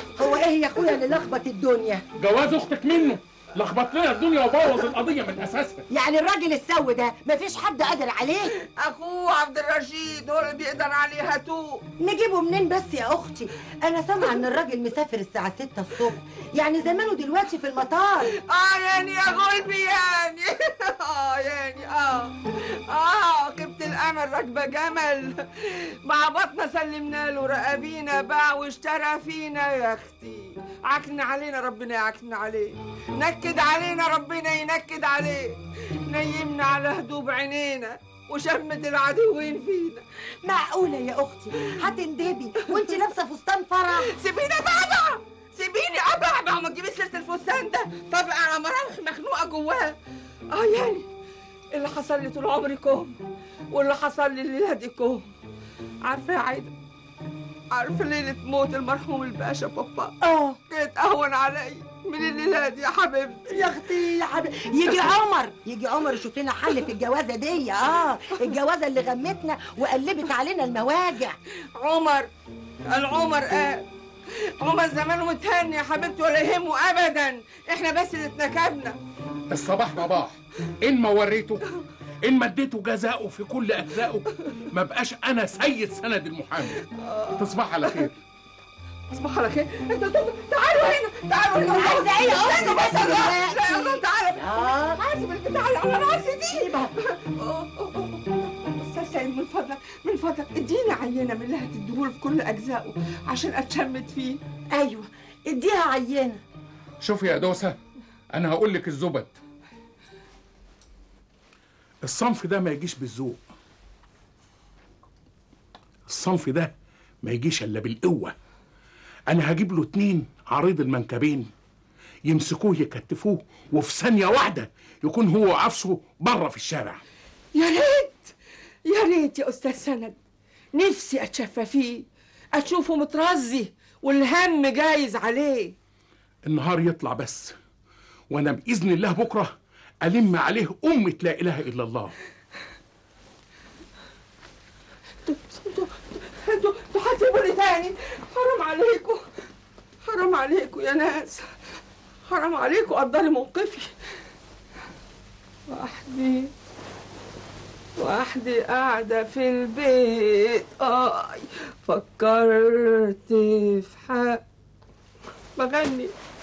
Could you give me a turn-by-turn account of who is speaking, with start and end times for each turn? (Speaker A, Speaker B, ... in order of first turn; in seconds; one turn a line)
Speaker A: 0.1-2.0
Speaker B: 2.2-5.9
Speaker A: 5.9-8.5
Speaker C: 8.8-11.8
Speaker A: 12.0-18.3
Speaker C: 18.3-40.0
Speaker A: 40.4-44.2
Speaker C: 44.0-50.0
Speaker C: 50.5-51.1
Speaker C: 51.7-53.1
Speaker C: 53.7-55.3
Speaker C: 56.0-56.7
Speaker C: 57.7-60.1
Speaker A: 60.2-60.6
Speaker C: 60.7-63.7
Speaker A: 63.5-71.4
Speaker C: 71.8-72.3
Speaker C: 72.9-73.9
Speaker C: 74.6-79.0
Speaker B: 79.5-81.6
Speaker B: 82.2-86.8
Speaker C: 86.9-88.1
Speaker B: 87.4-88.1
Speaker C: 89.1-104.4
Speaker A: 91.5-95.0
Speaker A: 96.5-96.9
Speaker A: 104.7-106.4
Speaker B: 107.0-107.8
Speaker B: 108.3-109.4
Speaker B: 112.0-113.4
Speaker B: 116.1-116.7
Speaker B: 117.2-118.3
Speaker B: 119.3-121.5
Speaker B: 122.3-127.0
Speaker C: 127.5-128.3
Speaker C: 128.9-130.2
Speaker C: 130.7-135.8
Speaker B: 136.4-137.6
Speaker B: 138.3-139.5
Speaker B: 140.0-142.1
Speaker C: 145.3-149.2
Speaker C: 150.1-151.5
Speaker C: 152.3-153.9
Speaker C: 155.7-156.5
Speaker C: 158.0-164.4
Speaker C: 165.6-166.1